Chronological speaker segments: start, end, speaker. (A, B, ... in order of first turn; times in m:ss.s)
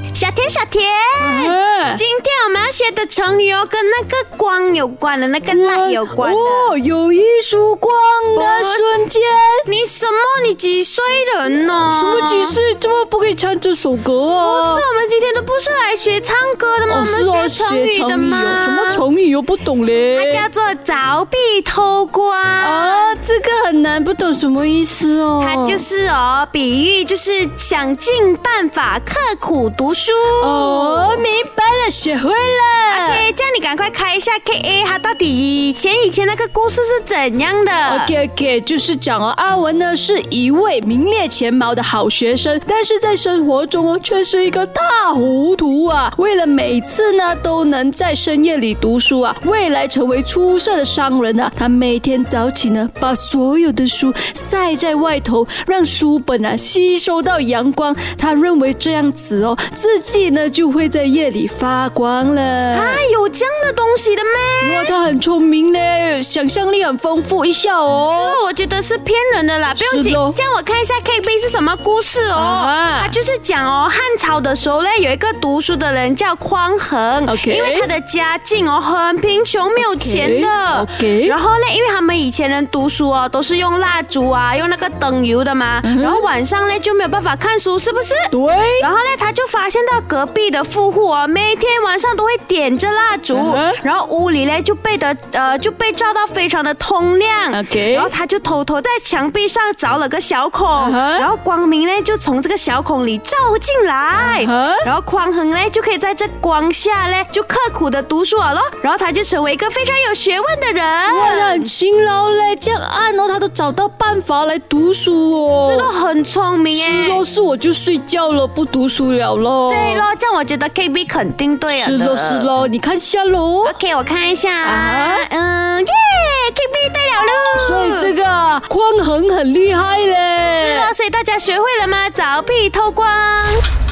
0:00.1-0:06.7 A
0:01.2-0:02.0 B
0:05.4-0:09.6 B
0:08.3-0:08.9 A
0:09.6-0:12.6 A
0:11.6-0:14.8 B
0:14.4-0:19.0 A
0:16.9-0:20.4 B
0:20.1-0:23.1 A
0:22.6-0:25.8 B
0:25.4-0:31.2 A
0:30.4-0:33.2 B
0:32.9-0:38.1 A
0:37.8-1:03.0 B
1:02.7-1:04.9 A
1:04.6-1:08.4 B
1:08.1-1:51.7 A
1:09.8-1:10.3 B
1:12.3-1:13.1 B
1:17.2-1:17.9 B
1:19.8-1:21.4 B
1:25.8-1:26.2 B
1:28.3-1:28.9 B
1:33.3-1:33.8 B
1:37.5-1:38.1 B
1:40.8-1:41.3 B
1:44.3-1:44.8 B
1:51.1-1:55.9 B
1:55.6-1:57.2 A
1:56.7-2:00.0 B
1:59.7-2:02.5 A
2:01.7-2:03.8 B
2:03.6-2:08.1 A
2:04.6-2:05.2 B
2:07.6-2:10.9 B
2:10.5-2:13.6 A